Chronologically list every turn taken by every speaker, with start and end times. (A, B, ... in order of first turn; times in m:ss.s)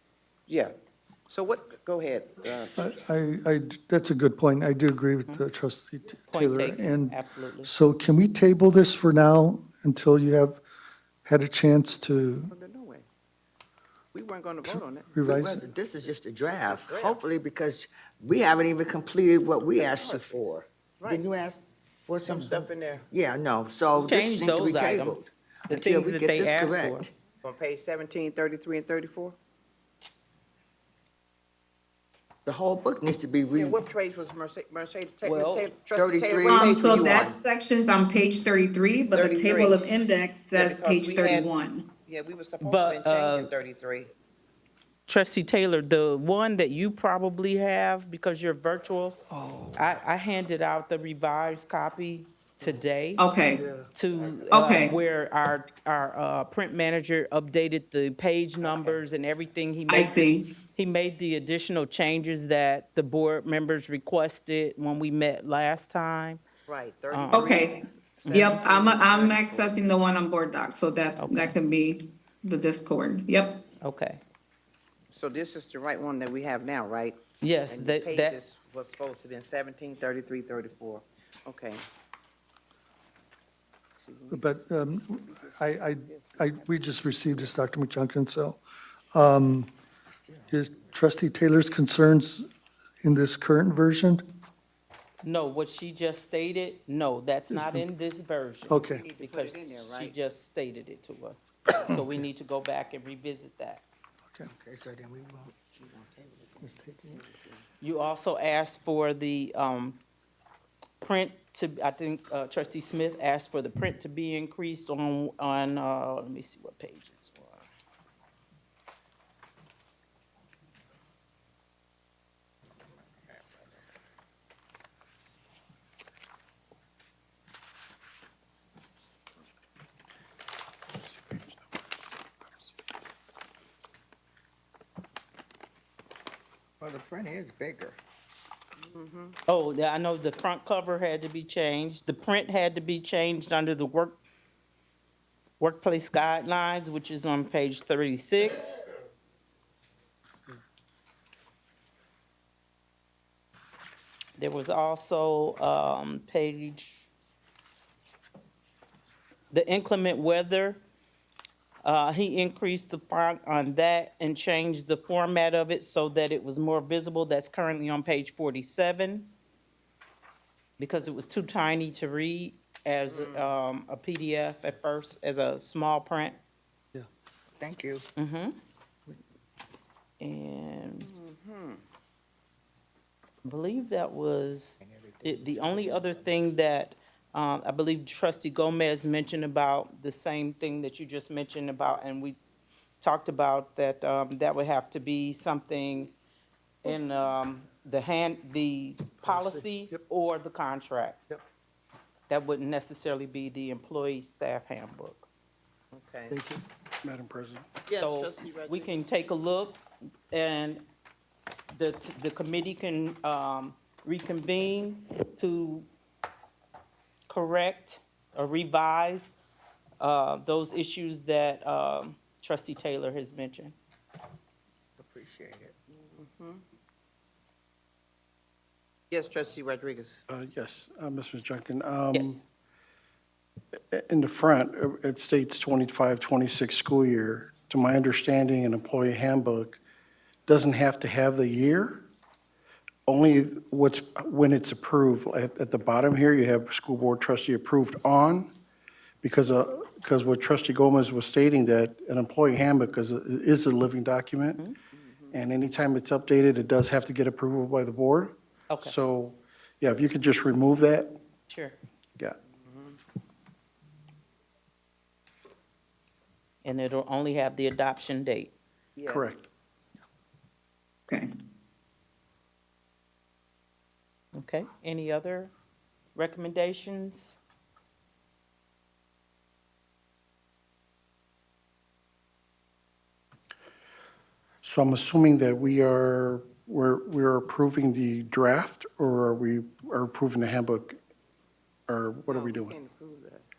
0:00.5-0:00.7 A
0:01.3-0:02.9 A
0:02.8-0:10.6 B
0:06.3-0:07.7 C
0:11.2-0:12.5 B
0:12.5-0:13.1 A
0:14.1-0:15.1 A
0:14.6-0:15.7 B
0:15.2-0:27.1 D
0:16.6-0:17.2 A
0:19.7-0:21.2 A
0:22.2-0:23.1 A
0:24.0-0:27.1 C
0:27.4-0:29.4 A
0:32.5-0:33.8 D
0:33.5-0:37.3 A
0:35.2-0:35.7 C
0:35.9-0:37.4 D
0:36.4-0:41.9 E
0:39.1-0:39.9 A
0:40.5-0:44.1 A
0:42.6-0:43.5 C
0:45.1-0:49.2 C
0:49.3-0:50.0 B
0:49.8-0:53.2 C
0:53.2-0:53.6 E
0:53.5-0:53.9 B
0:53.9-1:00.2 C
0:54.5-0:54.9 E
0:59.9-1:00.5 E
1:00.8-1:06.4 C
1:06.7-1:09.8 A
1:07.1-1:07.5 C
1:07.3-1:13.6 E
1:08.2-1:08.7 C
1:11.2-1:11.6 C
1:13.8-1:14.2 C
1:15.1-1:21.8 A
1:17.4-1:18.4 C
1:24.0-1:26.6 A
1:24.3-1:28.6 B
1:29.1-1:29.7 B
1:30.1-1:31.0 D
1:30.5-1:32.5 B
1:33.0-1:34.2 B
1:35.2-1:43.8 C
1:37.5-1:37.8 B
1:38.7-1:39.0 B
1:38.7-1:40.2 A
1:41.9-1:42.2 B
1:44.5-1:45.7 D
1:45.8-1:47.6 A
1:46.6-1:47.2 B
1:47.8-1:50.0 C
1:51.0-1:57.6 C
2:11.0-2:11.7 F
2:16.8-2:18.0 D
2:18.8-2:19.4 A
2:19.5-2:24.2 C
2:25.6-2:28.8 C
2:34.4-2:37.1 C
2:39.5-2:40.8 C
2:41.8-2:49.3 C
2:50.8-2:56.4 C
2:53.1-2:53.5 A
2:57.6-2:58.0 D
2:58.2-2:58.6 C
3:00.2-3:01.1 C
3:01.0-3:01.8 A
3:03.4-3:12.4 C
3:04.8-3:06.4 D
3:13.0-3:16.1 C
3:16.8-3:21.2 C
3:19.2-3:20.0 B
3:22.3-3:25.3 C
3:25.9-3:26.4 A
3:26.3-3:26.6 B
3:27.0-3:27.7 F
3:27.9-3:29.1 A
3:28.0-3:30.8 C
3:31.7-3:35.9 C
3:37.3-3:39.4 C
3:40.0-3:43.8 C
3:45.0-3:45.7 D
3:45.9-3:46.6 A
3:49.1-3:50.2 A
3:50.3-3:52.4 F
3:52.1-3:52.4 C
3:53.9-3:59.8 F
4:00.5-4:02.1 F
4:03.1-4:08.5 F
4:09.2-4:14.6 F
4:15.0-4:15.4 A
4:15.3-4:21.2 F
4:21.5-4:21.8 C
4:22.6-4:23.0 A
4:26.6-4:28.5 C
4:29.0-4:29.4 A
4:29.1-4:29.5 F
4:34.4-4:35.5 C
4:36.2-4:37.4 C
4:44.6-4:51.0 F
4:51.9-4:52.8 F
4:52.3-4:53.4 A